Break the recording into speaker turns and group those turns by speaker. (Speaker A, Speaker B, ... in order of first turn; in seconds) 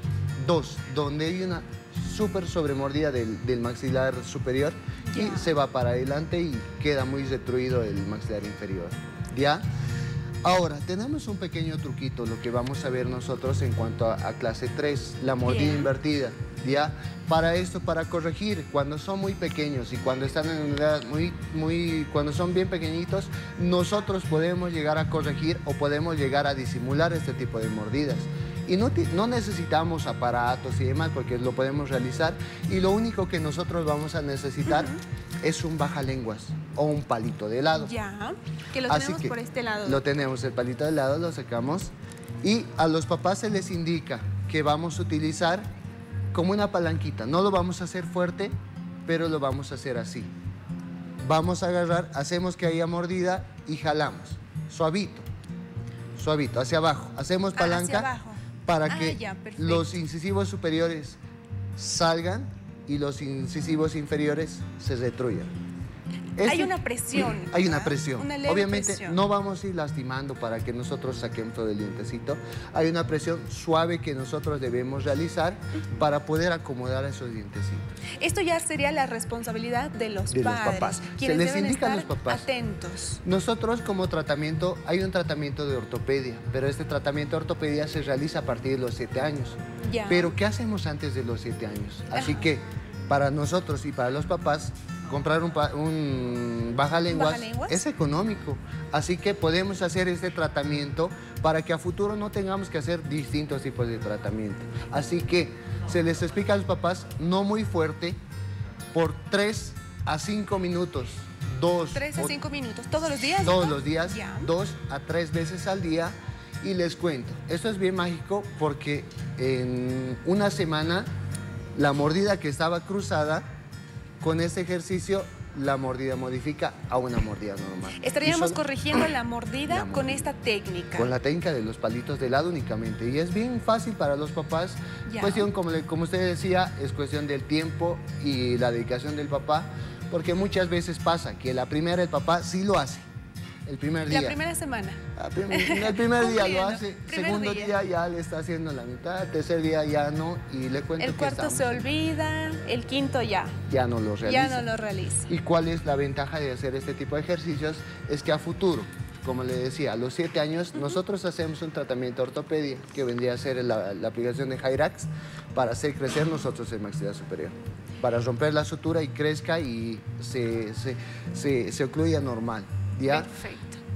Speaker A: 0.4-9.6, 10.4-38.0, 38.9-45.7, 46.3-48.5, 49.1-50.3, 51.2-55.3, 56.2-58.1, 58.7-61.2, 61.8-65.5, 66.4-77.8, 80.3-82.5, 83.2-108.2, 108.9-112.4, 113.4-121.1, 121.8-123.4, 124.2-128.6, 129.7-130.3, 131.0-143.1, 143.7-144.4, 145.2-151.9, 153.7-154.7, 155.3-173.3
Speaker B: 5.1-5.6, 15.4-15.9, 34.7-35.0, 37.8-40.1, 57.6-60.0, 66.4-69.2, 78.2-83.2, 89.9-90.3, 92.1-92.5, 97.1-97.8, 111.9-114.5, 128.0-131.1, 135.1-135.5, 144.1-147.8, 151.0-153.6, 154.2-155.3, 173.1-173.8